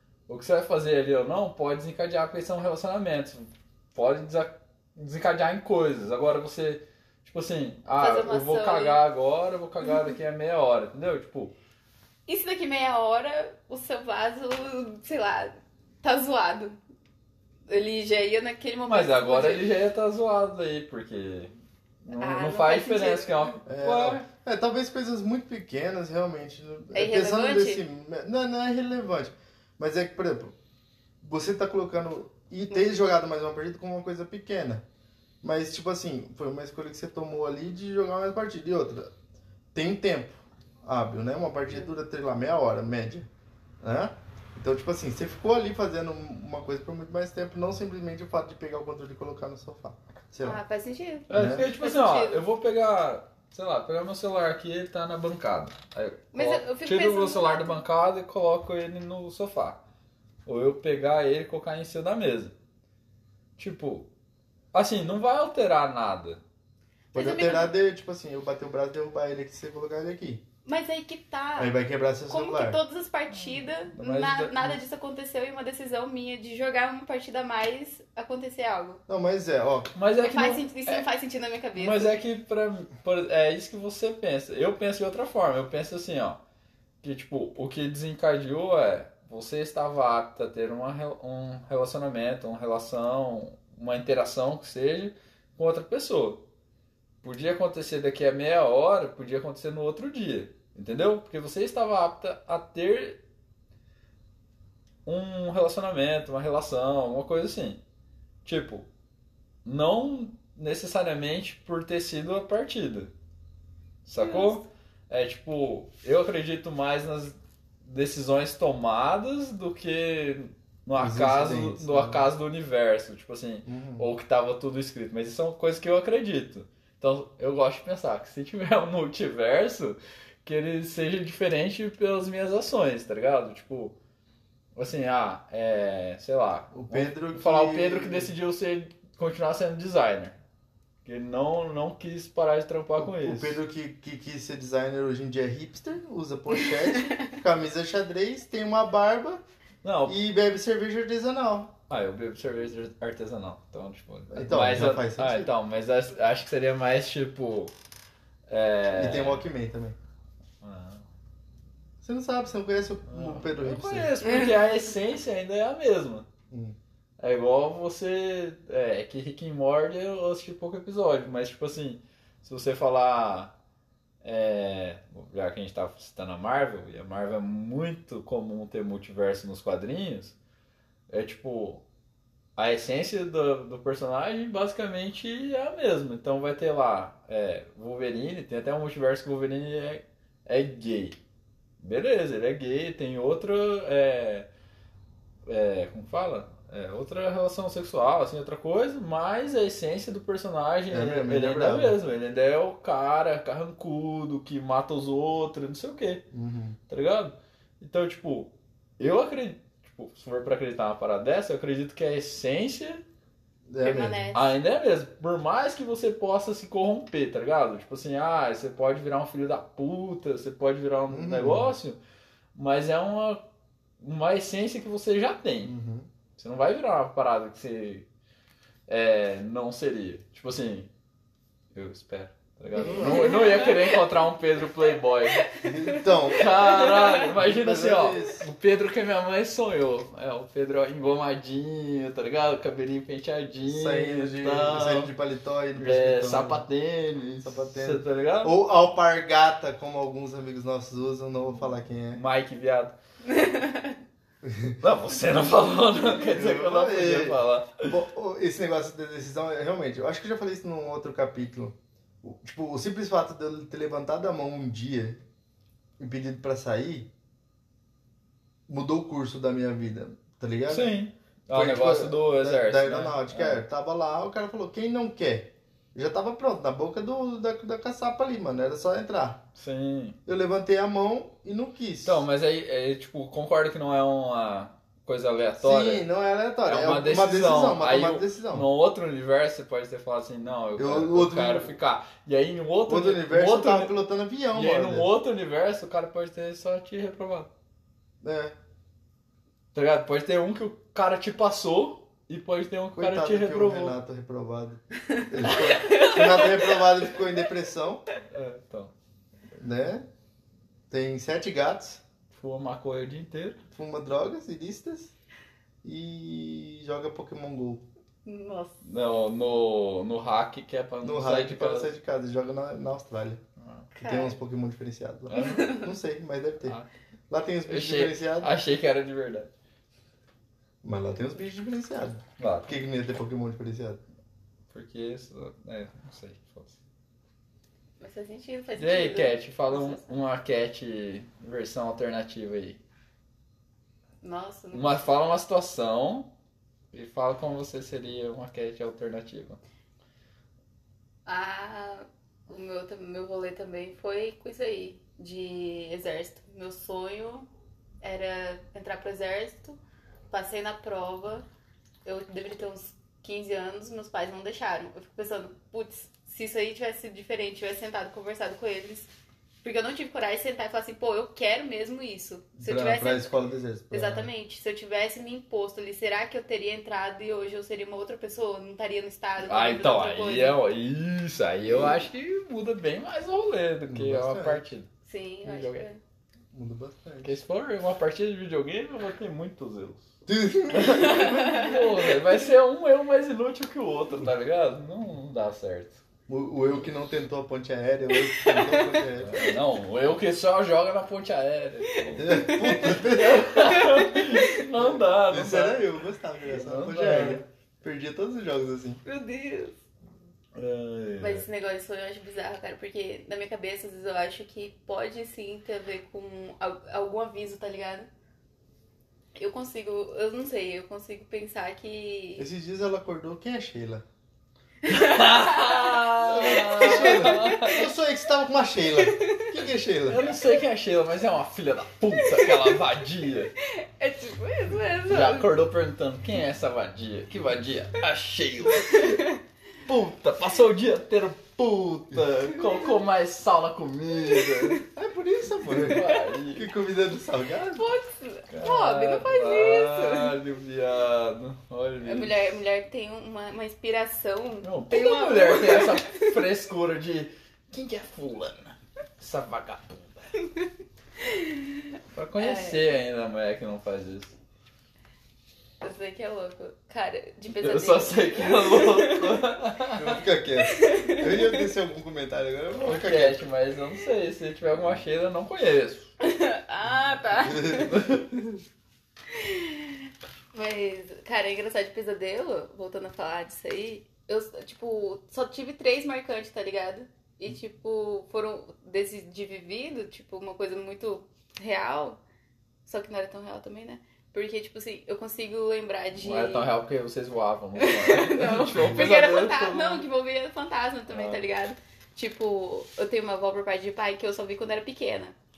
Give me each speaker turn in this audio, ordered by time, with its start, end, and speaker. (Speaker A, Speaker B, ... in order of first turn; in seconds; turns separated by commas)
Speaker A: 0.3-11.5, Speaker B: 7.9-9.0, Speaker B: 12.3-16.8, Speaker B: 17.7-19.7, Speaker A: 18.9-21.5, Speaker A: 22.0-24.3, Speaker B: 22.1-23.6, Speaker C: 23.7-30.5, Speaker B: 26.9-27.8, Speaker C: 31.2-34.8, Speaker C: 35.4-39.1, Speaker C: 39.7-43.3, Speaker C: 43.8-50.6, Speaker B: 50.4-52.5, Speaker A: 51.3-59.8, Speaker C: 51.3-51.6, Speaker B: 56.3-57.8, Speaker A: 60.5-62.5, Speaker A: 63.6-64.1, Speaker A: 64.7-66.4, Speaker B: 67.1-67.7, Speaker C: 67.1-70.4, Speaker B: 70.6-71.7, Speaker C: 71.6-72.8, Speaker B: 72.3-79.0, Speaker A: 73.4-74.6, Speaker C: 74.0-74.7, Speaker C: 79.1-79.9, Speaker A: 79.9-81.0, Speaker B: 80.2-82.2, Speaker A: 81.7-86.4, Speaker A: 87.0-96.5, Speaker A: 97.2-103.2, Speaker A: 105.0-107.8, Speaker A: 108.4-108.9, Speaker A: 109.6-113.1, Speaker A: 114.0-133.9, Speaker B: 114.2-114.6, Speaker C: 121.0-122.3, Speaker C: 123.7-124.1, Speaker A: 134.8-140.4, Speaker C: 136.7-138.3, Speaker A: 141.0-143.6, Speaker C: 143.0-149.4, Speaker A: 149.8-150.2, Speaker C: 150.1-151.8, Speaker A: 151.9-157.7, Speaker C: 154.3-155.5, Speaker A: 158.5-159.4, Speaker C: 158.9-160.0, Speaker A: 160.6-161.1, Speaker C: 162.0-164.2, Speaker A: 163.1-166.3, Speaker B: 164.2-164.5, Speaker C: 166.5-166.8, Speaker A: 167.2-173.5, Speaker A: 174.2-180.3, Speaker A: 181.1-181.8, Speaker A: 182.6-191.2, Speaker A: 191.8-194.5, Speaker A: 195.4-206.2, Speaker C: 200.9-202.0, Speaker C: 206.3-206.8, Speaker A: 206.9-213.0, Speaker C: 213.7-214.2, Speaker B: 213.8-214.6, Speaker A: 214.3-222.0, Speaker C: 221.1-221.7, Speaker A: 222.5-223.4, Speaker A: 224.0-225.7, Speaker C: 225.6-226.1, Speaker A: 226.3-228.1, Speaker A: 228.9-230.9, Speaker A: 231.7-235.5, Speaker C: 232.7-233.4, Speaker B: 233.0-234.0, Speaker B: 235.3-237.2, Speaker C: 235.6-236.5, Speaker A: 236.3-245.1, Speaker C: 237.4-238.4, Speaker C: 243.6-246.7, Speaker A: 245.8-248.6, Speaker C: 247.4-252.2, Speaker A: 252.1-252.9, Speaker B: 253.3-253.9, Speaker C: 254.4-254.8, Speaker A: 254.8-257.9, Speaker C: 256.2-265.2, Speaker C: 266.0-267.1, Speaker C: 268.7-270.9, Speaker A: 270.7-273.6, Speaker C: 271.5-279.4, Speaker A: 279.6-280.2, Speaker C: 280.2-282.2, Speaker A: 282.0-286.0, Speaker C: 285.6-288.7, Speaker A: 286.6-293.9, Speaker C: 290.8-291.7, Speaker C: 292.9-295.1, Speaker A: 294.5-297.5, Speaker C: 298.2-298.5, Speaker A: 299.7-303.9, Speaker C: 303.0-308.0, Speaker B: 305.1-307.2, Speaker A: 308.3-308.9, Speaker C: 309.6-310.1, Speaker C: 310.9-312.0, Speaker A: 312.3-313.6, Speaker C: 313.7-315.1, Speaker C: 315.8-317.8, Speaker B: 318.2-318.8, Speaker A: 318.8-321.9, Speaker C: 321.0-323.4, Speaker A: 323.6-323.9, Speaker B: 323.9-324.4, Speaker C: 324.0-326.8, Speaker A: 325.3-325.8, Speaker B: 325.3-325.9, Speaker A: 326.6-326.9, Speaker C: 327.3-328.5, Speaker A: 327.7-329.5, Speaker C: 330.8-334.0, Speaker A: 332.4-332.8, Speaker A: 334.7-336.8, Speaker B: 338.0-340.1, Speaker A: 338.8-342.8, Speaker B: 344.2-345.1, Speaker A: 344.7-346.3, Speaker A: 346.9-349.6, Speaker B: 351.2-357.5, Speaker B: 358.0-359.8, Speaker B: 360.3-361.4, Speaker B: 362.0-369.1, Speaker B: 369.6-373.3, Speaker C: 372.6-374.3, Speaker B: 373.9-380.6, Speaker A: 379.4-384.9, Speaker C: 381.7-381.9, Speaker C: 383.9-384.6, Speaker B: 385.0-386.0, Speaker A: 385.4-385.9, Speaker C: 386.5-387.4, Speaker A: 387.2-390.1, Speaker C: 390.3-391.6, Speaker A: 390.7-396.0, Speaker B: 390.9-392.1, Speaker C: 396.3-399.5, Speaker B: 398.3-398.9, Speaker A: 399.2-405.8, Speaker B: 401.9-404.6, Speaker C: 402.2-403.7, Speaker C: 404.8-409.0, Speaker A: 406.5-407.4, Speaker B: 409.0-409.8, Speaker A: 410.5-411.4, Speaker B: 411.2-418.1, Speaker B: 419.4-422.5, Speaker C: 422.4-424.0, Speaker B: 424.8-427.9, Speaker A: 424.9-427.9, Speaker C: 426.3-430.2, Speaker B: 429.0-429.5, Speaker A: 430.1-433.5, Speaker B: 432.1-432.8, Speaker B: 433.6-435.5, Speaker A: 435.1-439.2, Speaker B: 438.8-439.4, Speaker A: 439.8-444.8, Speaker B: 442.5-442.9, Speaker B: 444.3-444.8, Speaker C: 444.9-447.8, Speaker A: 445.7-446.7, Speaker B: 447.7-450.4, Speaker A: 448.5-452.5, Speaker B: 452.0-456.4, Speaker A: 454.6-460.4, Speaker B: 461.2-462.9, Speaker A: 462.1-464.3, Speaker B: 465.8-469.5, Speaker A: 467.5-470.2, Speaker C: 469.9-473.4, Speaker B: 470.6-471.6, Speaker A: 472.8-476.1, Speaker B: 476.2-478.6, Speaker C: 477.4-478.2, Speaker B: 479.3-492.2, Speaker B: 492.9-496.7, Speaker A: 496.2-500.0, Speaker B: 497.8-505.3, Speaker C: 498.7-499.1, Speaker A: 501.1-501.4